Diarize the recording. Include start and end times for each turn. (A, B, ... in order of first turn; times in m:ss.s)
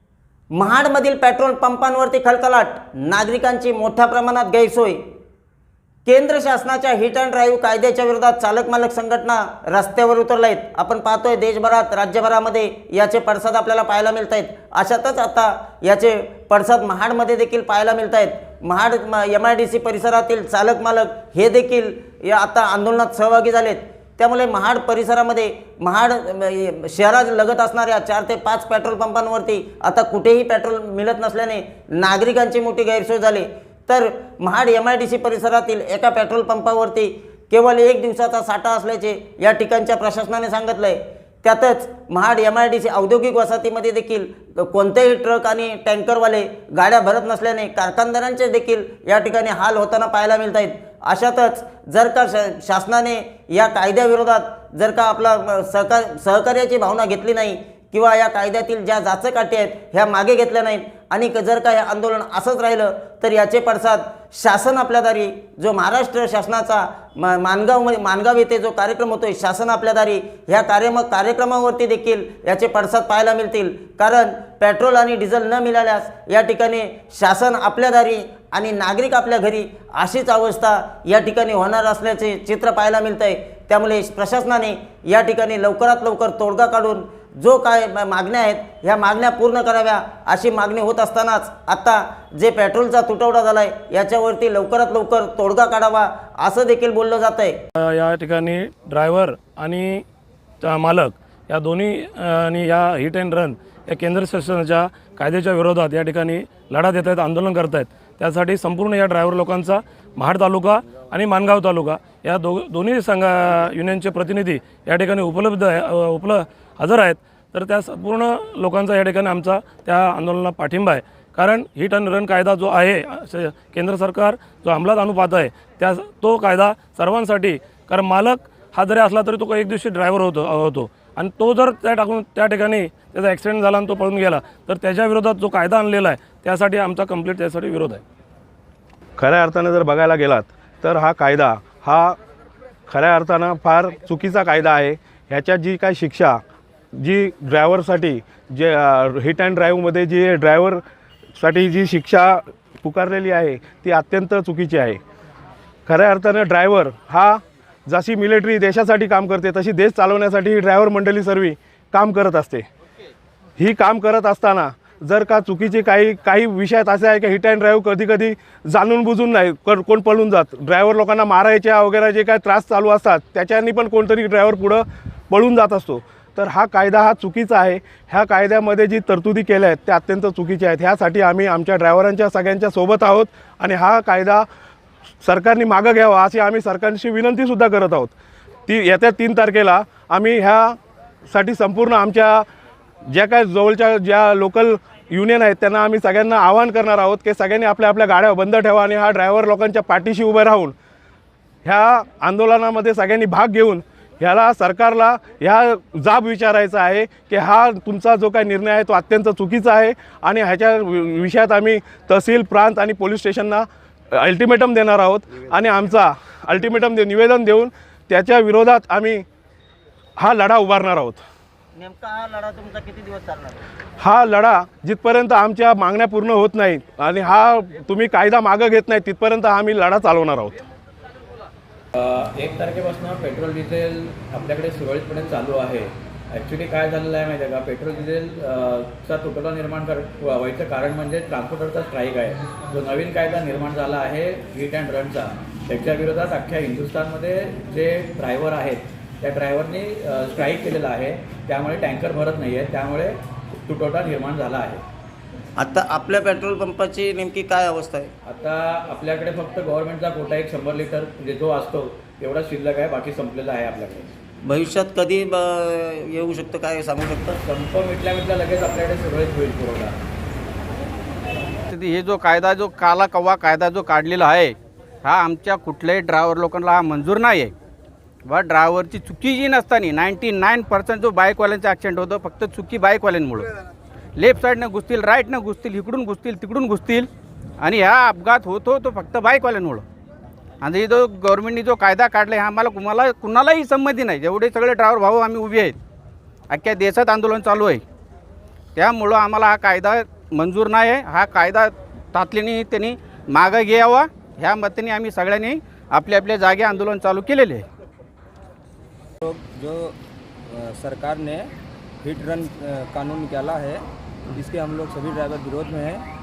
0:00.5-0:05.0 A
0:06.1-1:37.6 A
1:37.8-1:40.0 B
1:40.6-2:18.0 B
2:19.2-2:22.2 C
2:22.9-2:26.4 C
2:26.9-2:30.8 C
2:31.4-2:35.0 C
2:35.9-2:42.6 C
2:43.6-3:04.5 C
3:05.2-3:08.1 C
3:08.7-3:12.5 C
3:13.1-3:20.8 C
3:21.6-3:39.2 C
3:40.2-3:41.2 C
3:41.8-3:43.6 A
3:44.0-3:50.6 C
3:52.0-4:14.8 D
4:15.6-4:18.1 A
4:18.2-4:24.2 D
4:24.4-4:27.4 A
4:27.3-4:30.0 D
4:31.7-4:37.5 E
4:38.3-4:43.5 E
4:44.2-4:49.8 E
4:50.6-4:55.8 E
4:56.5-4:57.8 E
4:58.8-5:07.7 E
5:09.2-5:16.1 F